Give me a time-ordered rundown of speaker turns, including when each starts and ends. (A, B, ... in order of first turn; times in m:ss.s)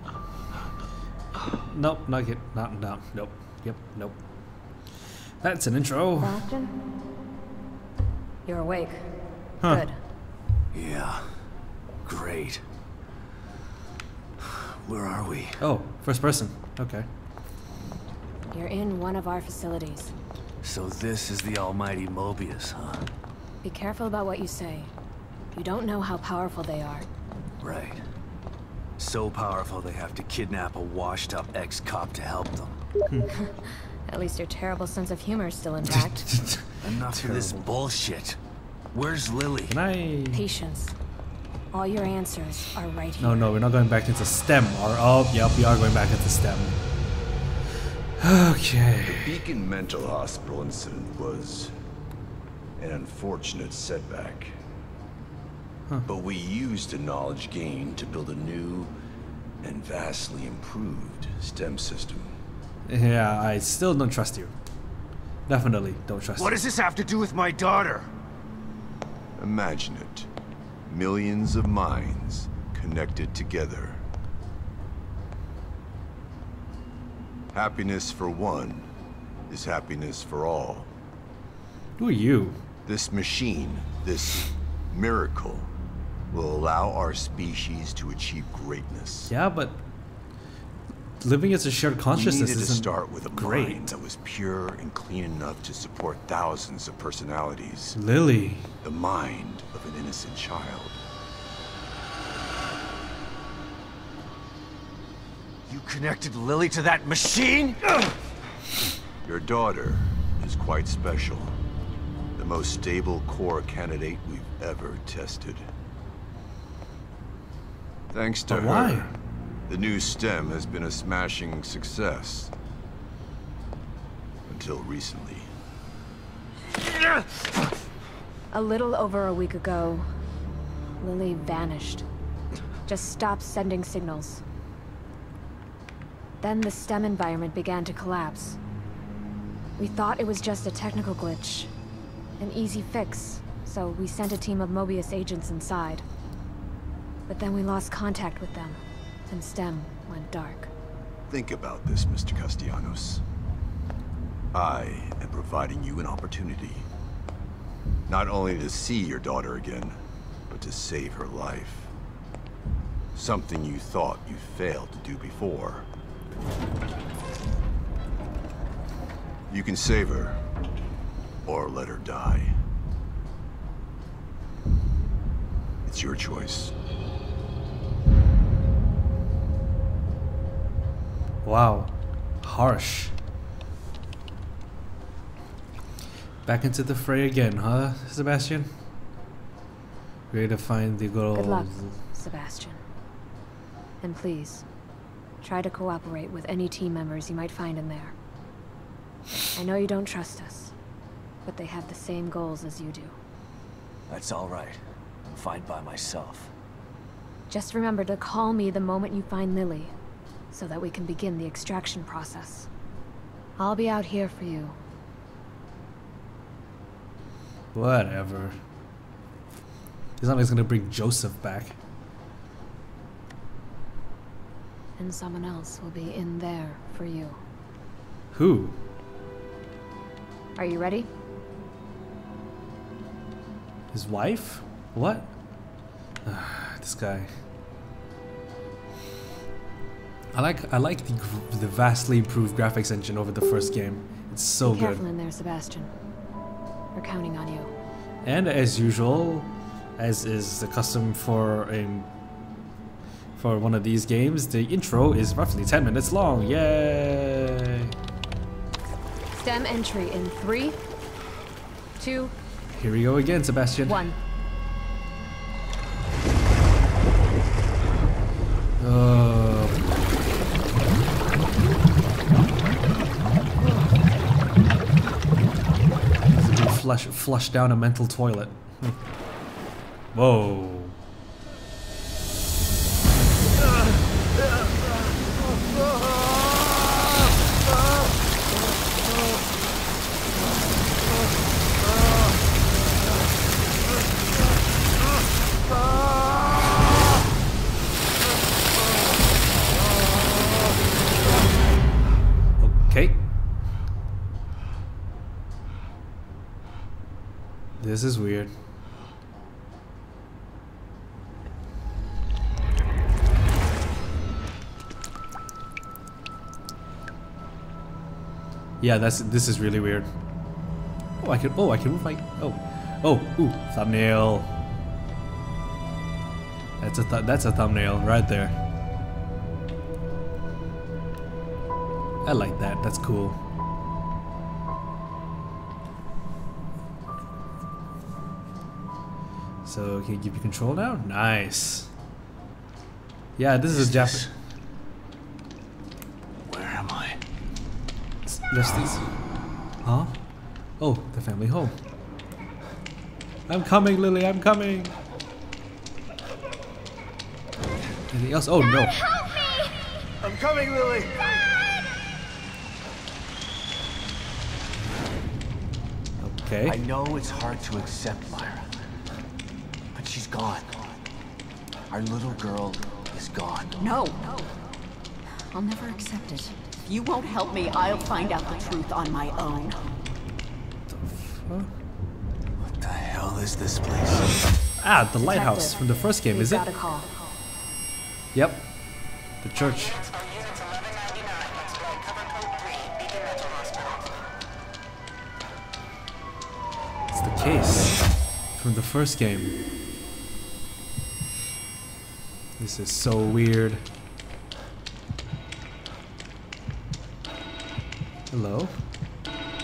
0:01.6-0:04.2 A
0:05.4-0:06.4 A
0:06.2-0:06.8 B
0:08.5-0:10.0 B
0:09.6-0:09.9 A
0:10.7-0:11.3 C
0:12.0-0:12.6 C
0:14.4-0:15.6 C
0:15.6-0:17.1 A
0:18.5-0:20.1 B
0:20.6-0:23.1 C
0:23.6-0:24.9 B
0:25.5-0:27.1 B
0:27.6-0:28.0 C
0:29.0-0:32.8 C
0:34.1-0:36.3 B
0:36.4-0:37.6 A
0:36.8-0:38.4 C
0:38.9-0:39.8 C
0:39.7-0:40.4 A
0:40.3-0:41.0 B
0:41.7-0:43.5 B
0:43.2-0:46.8 A
0:48.2-0:49.2 A
0:49.0-0:51.8 D
0:52.8-0:54.6 D
0:56.1-0:58.9 D
0:59.6-1:02.4 D
1:02.9-1:04.5 A
1:05.5-1:06.6 A
1:06.4-1:08.1 C
1:09.4-1:10.3 D
1:10.9-1:14.0 D
1:17.5-1:18.9 D
1:19.5-1:20.9 D
1:22.0-1:22.6 A
1:22.9-1:25.7 D
1:26.3-1:29.3 D
1:29.3-1:29.8 A
1:31.2-1:34.0 A
1:32.1-1:38.0 D
1:38.0-1:38.7 A
1:38.8-1:41.0 D
1:45.7-1:48.1 C
1:49.2-1:51.6 D
1:52.4-1:55.7 D
1:58.1-1:59.1 D
1:58.5-1:59.1 A
1:59.7-2:02.5 D
2:04.5-2:05.5 D
2:08.5-2:10.1 B
2:11.0-2:12.0 B
2:12.9-2:14.4 B
2:16.4-2:18.6 B
2:19.8-2:21.7 B
2:22.4-2:26.0 B
2:27.3-2:30.7 B
2:31.3-2:33.2 D
2:34.5-2:36.9 D
2:38.1-2:40.0 D
2:40.5-2:41.9 D
2:43.2-2:45.9 D
2:49.5-2:50.4 D
2:51.4-2:52.6 D
2:55.8-2:56.8 D
3:01.4-3:03.1 A
3:06.4-3:08.7 A
3:10.3-3:12.0 A
3:11.3-3:12.8 B
3:14.0-3:14.6 B
3:15.4-3:18.2 B
3:19.6-3:20.7 B
3:21.4-3:23.2 B
3:24.1-3:26.5 C
3:27.5-3:29.9 B
3:30.5-3:32.7 B
3:33.6-3:34.8 B
3:37.7-3:38.6 A
3:40.2-3:41.8 A
3:45.0-3:47.4 B
3:48.3-3:48.8 A
3:50.6-3:51.1 B
3:53.9-3:55.3 A
3:56.2-3:57.3 A
4:00.3-4:05.0 A
4:04.6-4:05.9 B
4:07.0-4:07.7 B
4:08.2-4:12.1 A
4:13.4-4:17.9 A
4:19.3-4:20.8 B
4:22.0-4:22.3 B
4:22.7-4:24.0 A
4:23.8-4:24.2 B
4:28.8-4:29.8 A
4:36.3-4:39.0 A
4:40.1-4:41.0 A
5:02.6-5:03.2 A
5:07.8-5:08.5 A
5:18.8-5:20.1 A
5:21.2-5:24.6 A
5:26.8-5:28.6 A
5:32.2-5:33.4 A
5:39.6-5:41.9 A
5:43.4-5:44.3 A
5:43.7-5:44.3 C
5:46.5-5:47.2 C
5:48.3-5:49.1 A
5:49.8-5:50.2 A
5:50.8-5:51.8 A
5:53.5-5:55.0 A
5:58.1-5:59.0 A
6:00.2-6:01.3 C
6:06.2-6:06.8 A
6:06.6-6:08.7 C
6:09.9-6:11.0 C
6:11.9-6:13.8 C
6:13.9-6:14.2 E
6:15.6-6:19.8 E
6:20.9-6:21.7 A
6:22.6-6:24.3 C
6:24.8-6:26.7 A
6:25.2-6:27.3 B
6:28.3-6:28.7 A
6:29.4-6:30.1 A
6:37.1-6:38.0 A
6:38.6-6:39.6 A
6:42.6-6:43.9 A
6:48.3-6:48.8 A